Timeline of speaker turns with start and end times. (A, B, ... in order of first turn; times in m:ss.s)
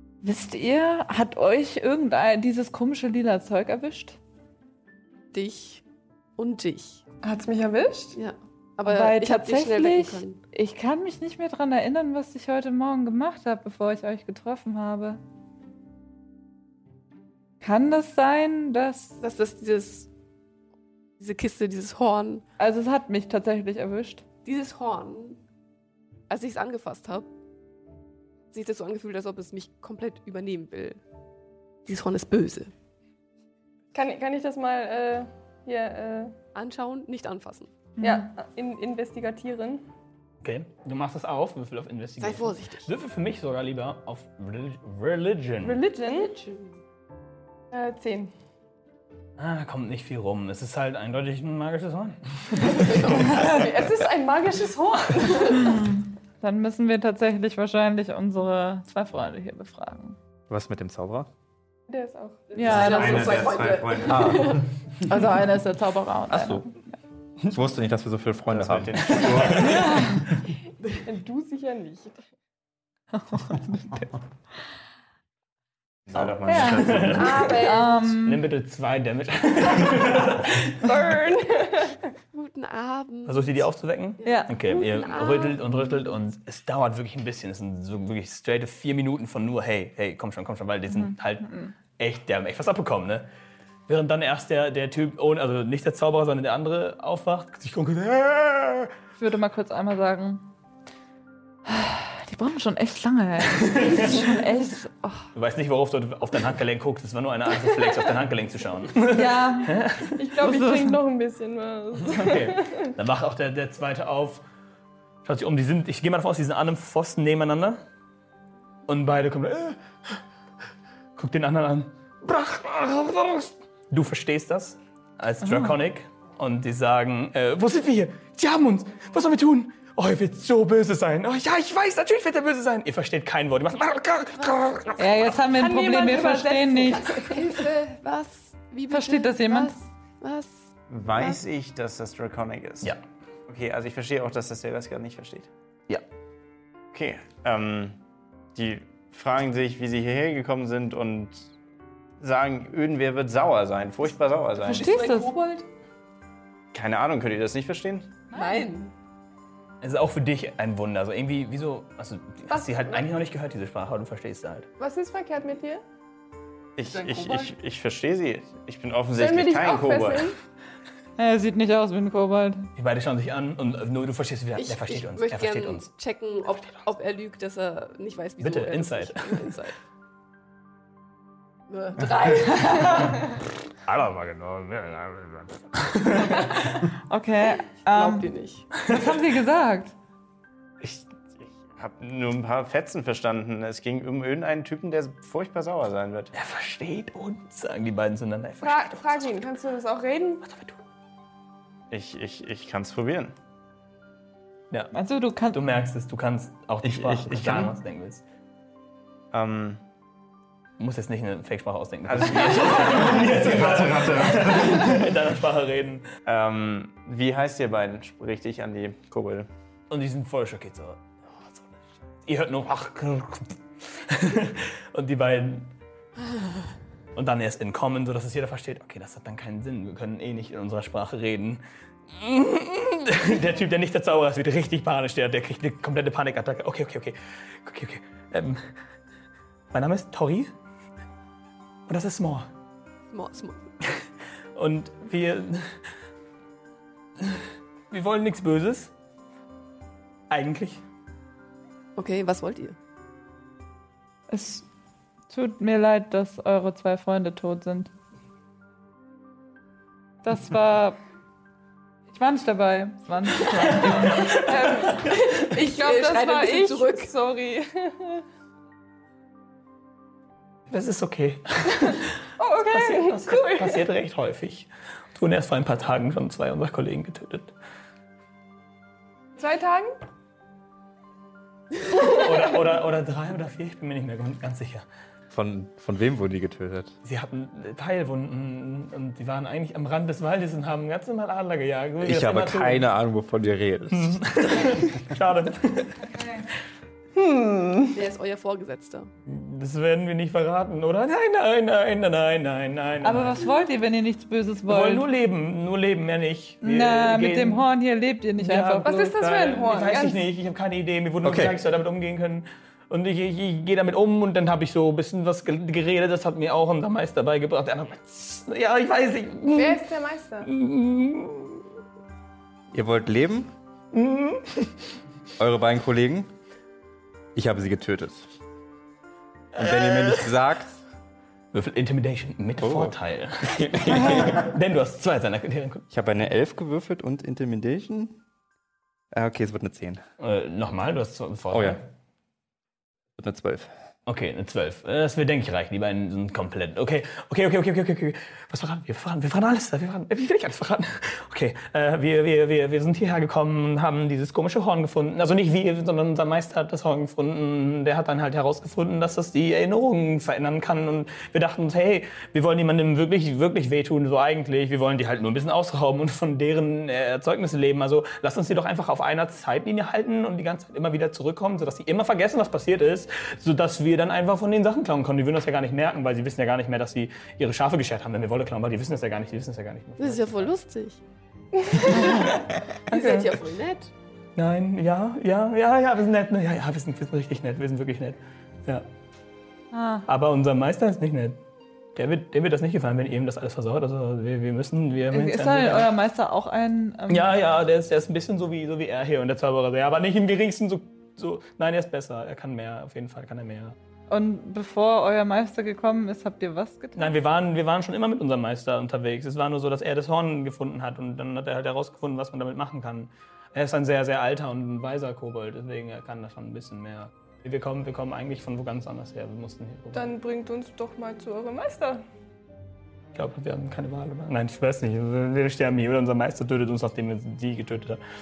0:00.2-0:04.2 A
0:05.3-0:05.8 B
0:06.4-0:07.0 B
0:07.2-0:08.2 C
0:08.2-0:10.4 B
0:08.8-0:15.2 A
0:17.6-0:19.2 A
0:19.2-0:20.1 B
0:21.2-0:22.4 B
0:22.6-0:24.2 A
0:24.4-0:25.4 B
0:26.3-0:27.3 B
0:28.5-0:31.0 B
0:31.9-0:32.7 B
0:33.9-0:36.4 C
0:36.5-0:37.9 B
0:38.0-0:38.3 A
0:38.0-0:39.8 C
0:40.4-0:45.8 D
0:42.2-0:42.9 B
0:45.6-0:46.4 C
0:46.1-0:46.8 B
0:47.7-0:48.3 C
0:49.4-0:53.3 D
0:52.5-0:53.6 B
0:53.3-0:55.8 C
0:55.6-1:00.2 A
1:00.5-1:01.3 E
1:01.9-1:02.7 C
1:02.5-1:04.7 B
1:02.6-1:03.5 A
1:02.6-1:04.7 F
1:04.1-1:04.6 E
1:05.0-1:06.7 A
1:06.3-1:06.6 E
1:07.5-1:09.8 E
1:08.5-1:10.0 F
1:09.2-1:09.7 D
1:09.5-1:10.3 A
1:11.0-1:12.2 C
1:13.2-1:14.2 A
1:16.1-1:17.6 F
1:16.5-1:18.4 A
1:16.6-1:17.4 D
1:17.0-1:18.1 B
1:18.0-1:21.1 D
1:20.8-1:22.0 C
1:22.3-1:23.6 B
1:23.3-1:33.3 D
1:24.2-1:25.7 B
1:24.2-1:24.5 A
1:31.0-1:31.7 A
1:33.9-1:39.0 D
1:39.2-1:40.4 A
1:41.7-1:45.3 A
1:43.6-1:44.3 D
1:45.4-1:50.2 D
1:49.1-1:49.8 A
1:50.2-1:52.9 C
1:50.4-1:51.0 A
1:52.0-1:54.4 D
1:55.2-1:57.8 D
1:58.9-2:00.2 D
2:01.2-2:15.4 D
2:05.4-2:05.7 A
2:15.0-2:17.1 A
2:15.5-2:17.5 C
2:17.0-2:20.6 B
2:18.9-2:19.8 A
2:20.9-2:23.0 F
2:21.1-2:21.4 B
2:23.5-2:25.5 F
2:26.9-2:28.0 F
2:28.6-2:31.5 F
2:32.2-2:35.0 F
2:34.6-2:35.7 B
2:34.7-2:35.3 A
2:36.7-2:38.1 F
2:38.3-2:38.7 A
2:38.3-2:38.9 B
2:39.8-2:44.7 D
2:44.8-2:45.8 C
2:46.8-2:50.4 F
2:49.2-2:50.4 C
2:51.2-2:52.7 A
2:52.8-2:55.9 D
2:54.6-2:59.8 B
2:58.4-2:59.6 D
3:01.7-3:03.2 B
3:03.8-3:06.8 D
3:06.5-3:09.9 A
3:07.7-3:08.8 B
3:10.8-3:16.3 F
3:16.3-3:19.4 D
3:18.6-3:20.4 C
3:20.4-3:20.8 D
3:21.9-3:23.3 F
3:24.9-3:25.6 A
3:25.5-3:28.2 D
3:26.8-3:27.8 F
3:29.3-3:29.8 F
3:30.8-3:36.1 D
3:32.1-3:35.2 F
3:36.3-3:39.5 F
3:39.9-3:45.7 D
3:47.2-3:58.7 D
3:59.7-4:00.5 D
4:01.9-4:02.5 D
4:03.1-4:03.7 B
4:04.6-4:05.8 D
4:07.2-4:08.9 D
4:10.3-4:10.8 D
4:12.0-4:12.8 B
4:14.3-4:14.7 A
4:15.3-4:17.9 A
4:20.2-4:21.0 A
4:22.1-4:24.5 A
4:23.7-4:25.2 D
4:24.2-4:28.2 C
4:25.0-4:27.1 B
4:30.7-4:37.5 D
4:32.4-4:33.8 C
4:39.4-4:40.0 C
4:42.0-4:44.9 D
4:45.3-4:47.0 E
4:47.0-4:52.9 D
4:52.0-4:54.2 E
4:53.9-4:56.1 D
4:56.1-4:56.4 A
4:57.2-4:58.0 C
4:58.0-4:59.1 B
4:59.3-5:03.4 D
5:03.0-5:05.0 A
5:04.7-5:07.7 D
5:06.6-5:09.0 A
5:08.4-5:19.8 D
5:08.8-5:10.2 C
5:11.2-5:11.6 E
5:19.5-5:20.5 C
5:20.4-5:21.6 D
5:22.7-5:23.5 E
5:23.9-5:24.7 D
5:25.4-5:26.3 E
5:27.4-5:28.3 E
5:29.6-5:30.3 D
5:29.6-5:30.8 E
5:31.5-5:35.8 D
5:32.6-5:34.5 E
5:35.9-5:38.2 E
5:39.1-5:40.0 E
5:40.2-5:41.8 D
5:41.5-5:41.8 E
5:43.2-5:43.7 E
5:44.1-6:20.5 D
6:20.0-6:21.0 B
6:21.9-6:23.3 D
6:21.9-6:23.9 B
6:22.0-6:22.4 A
6:24.4-6:28.9 D
6:29.7-6:30.1 A
6:30.1-6:31.4 D
6:32.0-6:35.9 D
6:35.1-6:37.3 A
6:37.1-6:43.8 D
6:44.1-6:47.1 A
6:47.0-7:00.1 D
6:59.9-7:02.0 C
7:03.1-7:08.0 D